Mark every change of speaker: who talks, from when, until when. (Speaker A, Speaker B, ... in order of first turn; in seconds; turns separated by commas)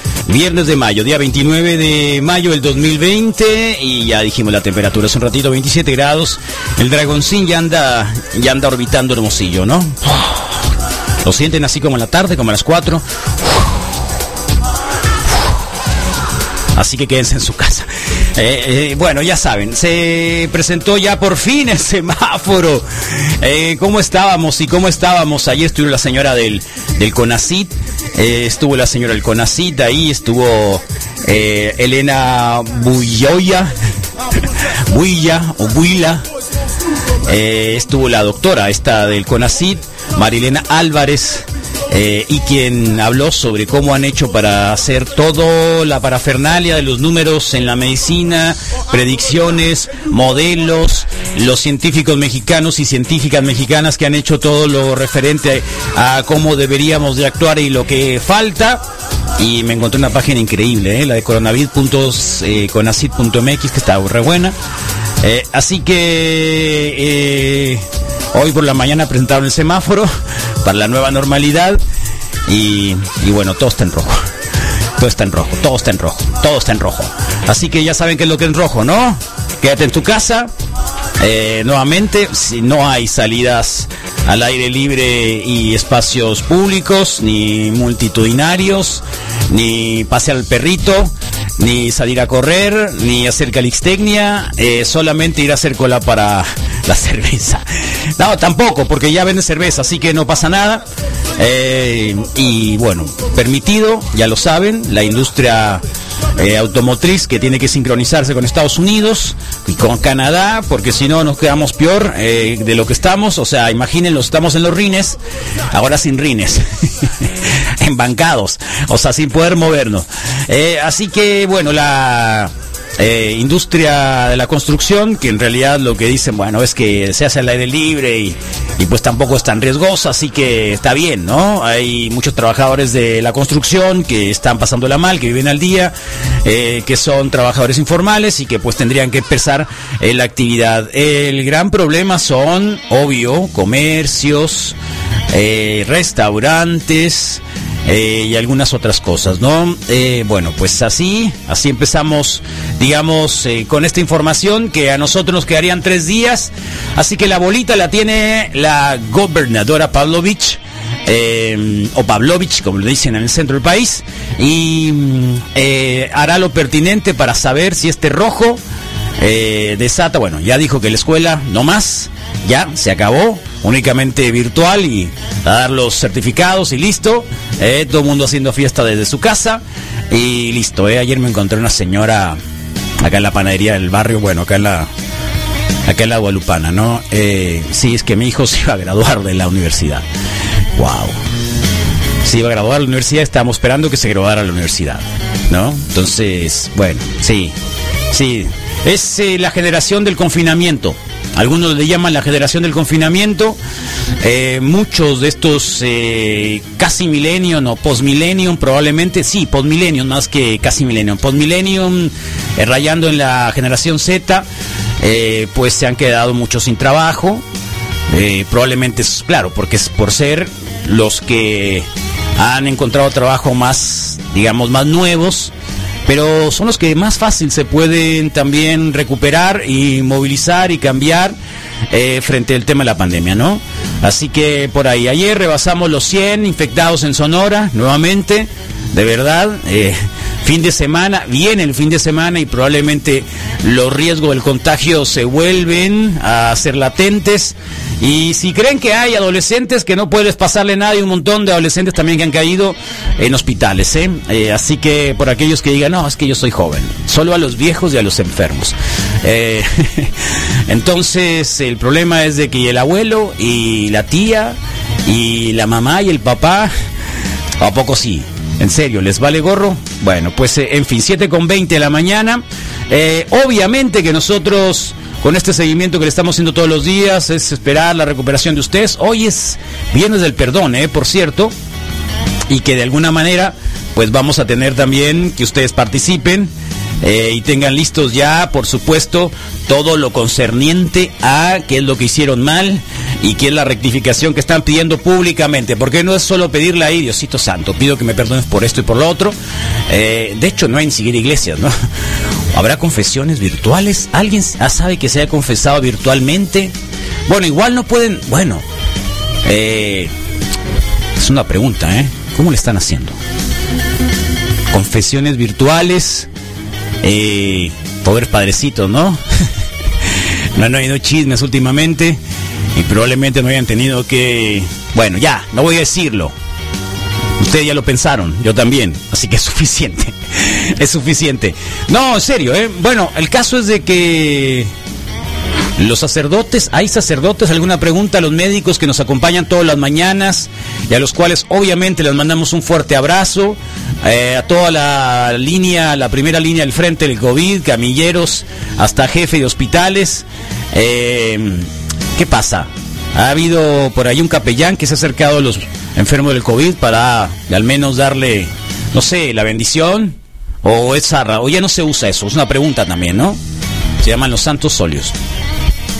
Speaker A: 0.3-10.5, Speaker A: 11.2-13.7, Speaker A: 16.7-33.7, Speaker A: 34.9-36.2, Speaker A: 37.2-58.8, Speaker A: 59.4-64.5, Speaker A: 65.2-70.1, Speaker A: 70.6-71.8, Speaker A: 72.5-74.2, Speaker A: 75.0-80.5, Speaker A: 81.2-100.8, Speaker A: 101.4-105.8, Speaker A: 106.3-115.2, Speaker A: 115.7-144.8, Speaker A: 145.3-168.6, Speaker A: 169.2-182.4, Speaker A: 183.0-184.9, Speaker A: 185.8-190.1, Speaker A: 190.8-191.2, Speaker A: 192.2-197.5, Speaker A: 198.1-203.6, Speaker A: 204.2-214.4, Speaker A: 215.0-217.4, Speaker A: 218.1-225.5, Speaker A: 226.1-231.3, Speaker A: 231.9-260.1, Speaker A: 260.7-266.7, Speaker A: 267.6-281.5, Speaker A: 282.5-286.5, Speaker A: 287.0-299.4, Speaker A: 299.9-301.7, Speaker A: 302.5-306.7, Speaker A: 307.3-308.6, Speaker A: 309.4-310.1, Speaker A: 311.2-313.2, Speaker A: 314.7-316.3, Speaker A: 317.0-319.2, Speaker A: 320.5-322.2, Speaker A: 322.7-326.3, Speaker A: 327.4-334.7, Speaker A: 335.8-363.4, Speaker A: 364.0-365.1